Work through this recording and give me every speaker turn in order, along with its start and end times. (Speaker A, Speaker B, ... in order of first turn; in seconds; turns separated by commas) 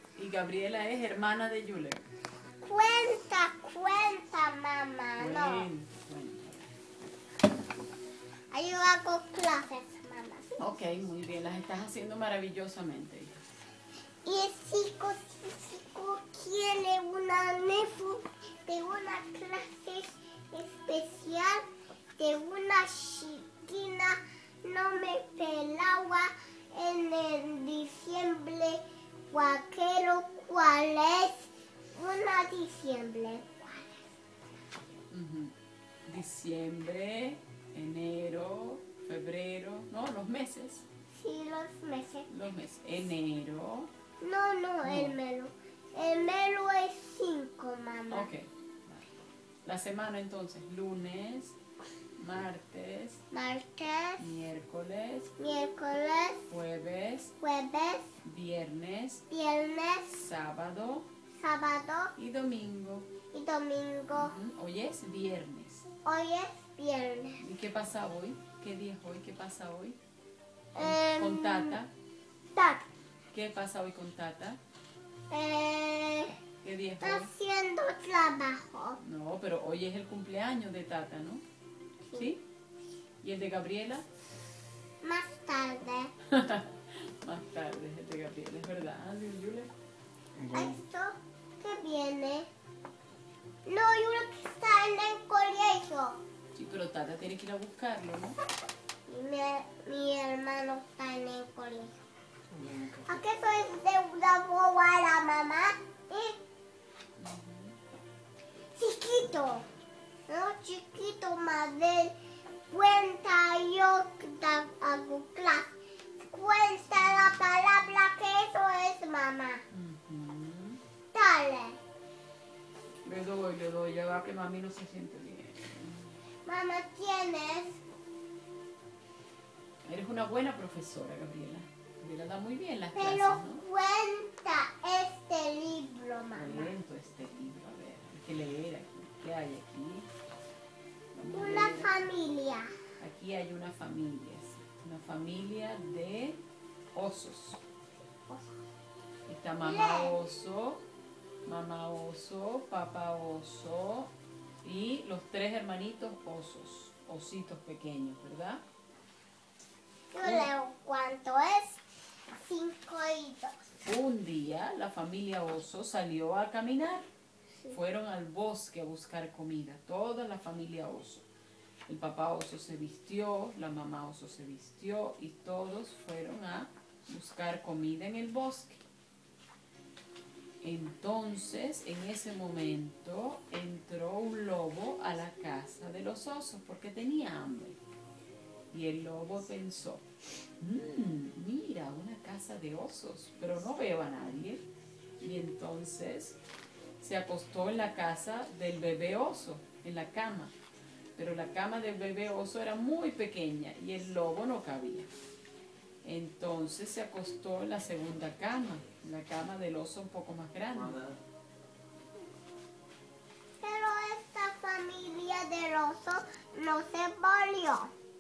Speaker A: 0.2-2.1, Speaker B: 2.6-5.7, Speaker A: 5.2-6.7, Speaker B: 8.5-10.6, Speaker A: 10.6-13.4, Speaker B: 14.2-21.6, Speaker B: 22.2-34.1, Speaker A: 35.1-35.5, Speaker A: 36.0-40.9, Speaker B: 41.1-42.3, Speaker A: 42.3-43.9, Speaker B: 44.2-48.3, Speaker A: 44.8-45.2, Speaker A: 48.1-51.6, Speaker A: 52.2-53.2, Speaker B: 53.3-54.2, Speaker A: 54.2-55.3, Speaker B: 55.4-56.4, Speaker A: 56.5-57.4, Speaker B: 57.4-58.1, Speaker A: 58.2-59.2, Speaker B: 59.3-60.1, Speaker A: 60.1-61.1, Speaker B: 61.3-62.1, Speaker A: 62.2-63.1, Speaker B: 63.3-64.3, Speaker A: 64.1-65.9, Speaker B: 66.0-67.4, Speaker A: 67.4-70.0, Speaker B: 70.8-71.8, Speaker A: 70.8-71.9, Speaker B: 72.5-72.9, Speaker A: 73.3-74.6, Speaker B: 75.3-76.4, Speaker A: 76.6-77.3, Speaker B: 77.0-79.0, Speaker A: 79.0-81.4, Speaker A: 82.2-82.4, Speaker A: 83.2-84.1, Speaker B: 85.0-86.1, Speaker A: 86.3-89.7, Speaker A: 90.4-90.7, Speaker B: 90.5-92.5, Speaker B: 93.7-96.2, Speaker A: 96.5-98.4, Speaker B: 99.1-102.0, Speaker A: 102.5-103.2, Speaker B: 103.0-106.4, Speaker A: 107.2-107.8, Speaker B: 108.7-109.7, Speaker B: 110.3-112.1, Speaker B: 112.7-119.6, Speaker A: 117.0-117.4, Speaker A: 119.7-120.8, Speaker B: 121.1-121.8, Speaker A: 123.0-126.1, Speaker B: 126.5-127.8, Speaker A: 129.8-133.6, Speaker B: 132.9-136.7, Speaker A: 136.3-140.1, Speaker A: 141.1-142.0, Speaker B: 141.3-142.7, Speaker A: 143.0-146.4, Speaker A: 146.9-147.6, Speaker A: 149.3-150.8, Speaker B: 149.6-150.2, Speaker A: 151.4-154.1, Speaker A: 154.6-158.6, Speaker B: 160.1-161.8, Speaker A: 160.2-160.5, Speaker B: 162.3-163.6, Speaker A: 163.8-167.1, Speaker A: 167.7-171.3, Speaker A: 171.9-178.8, Speaker A: 180.6-187.8, Speaker A: 188.7-190.1, Speaker A: 190.6-194.7, Speaker A: 195.2-196.4, Speaker A: 197.0-200.5, Speaker A: 201.2-205.1, Speaker A: 206.0-211.1, Speaker B: 213.6-217.9